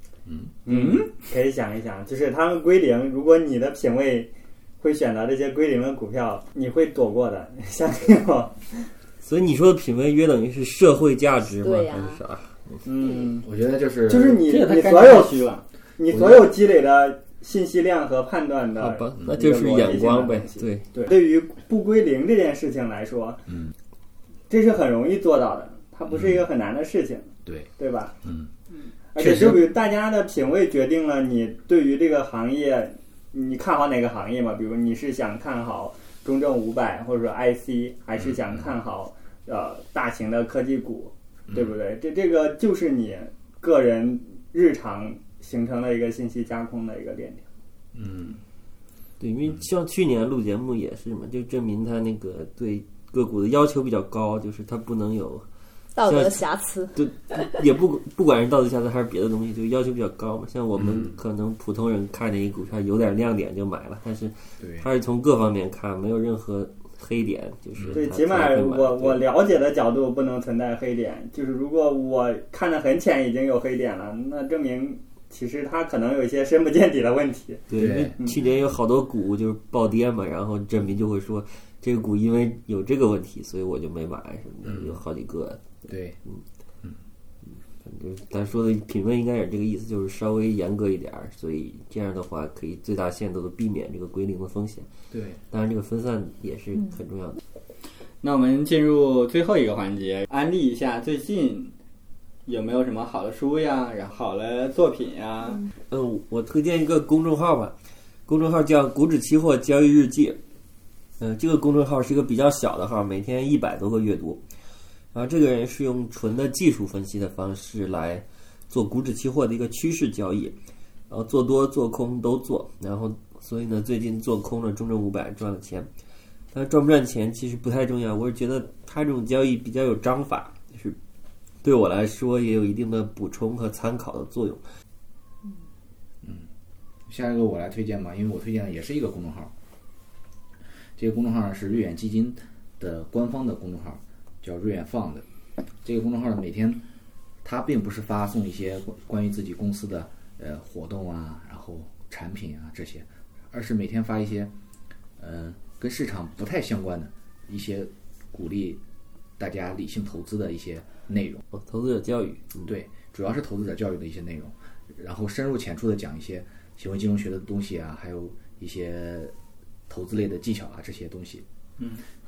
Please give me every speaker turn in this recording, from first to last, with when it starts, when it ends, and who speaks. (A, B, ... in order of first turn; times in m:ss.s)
0:00.2-0:00.5 A
0:00.6-0:08.9 B
0:00.7-0:01.1 C
0:09.2-0:12.8 D
0:11.6-0:12.2 E
0:12.8-0:13.5 B
0:13.4-0:14.4 A
0:14.1-0:23.4 B
0:14.5-0:15.6 C
0:16.1-0:16.5 A
0:18.8-0:20.9 D
0:23.5-0:23.7 A
0:24.5-0:28.1 B
0:26.1-0:26.5 A
0:28.2-0:28.5 A
0:29.1-0:47.4 B
0:29.2-0:29.6 A
0:38.2-0:38.7 A
0:41.5-0:41.7 A
0:47.9-0:48.4 A
0:49.2-0:55.4 D
0:56.0-0:57.5 E
0:56.0-0:56.4 D
0:56.9-1:09.2 D
1:00.8-1:01.1 A
1:04.6-1:04.9 A
1:07.8-1:08.0 A
1:07.9-1:17.6 B
1:17.7-1:26.4 D
1:17.7-1:18.2 A
1:24.6-1:25.0 A
1:25.8-1:26.2 A
1:27.8-1:34.9 D
1:35.1-1:35.4 A
1:35.5-1:37.4 D
1:38.2-1:41.7 C
1:42.4-1:45.6 C
1:45.9-1:47.7 D
1:48.3-1:50.4 D
1:51.2-1:54.4 D
1:55.1-2:00.5 D
2:01.1-2:05.9 D
2:06.5-2:11.0 D
2:11.6-2:14.6 D
2:16.2-2:16.5 A
2:17.1-2:19.5 A
2:21.0-2:25.2 A
2:25.8-2:26.8 A
2:27.4-2:34.5 A
2:35.2-2:38.8 A
2:39.4-2:41.4 A
2:41.5-2:42.7 D
2:42.6-2:49.3 A
2:49.9-2:51.4 A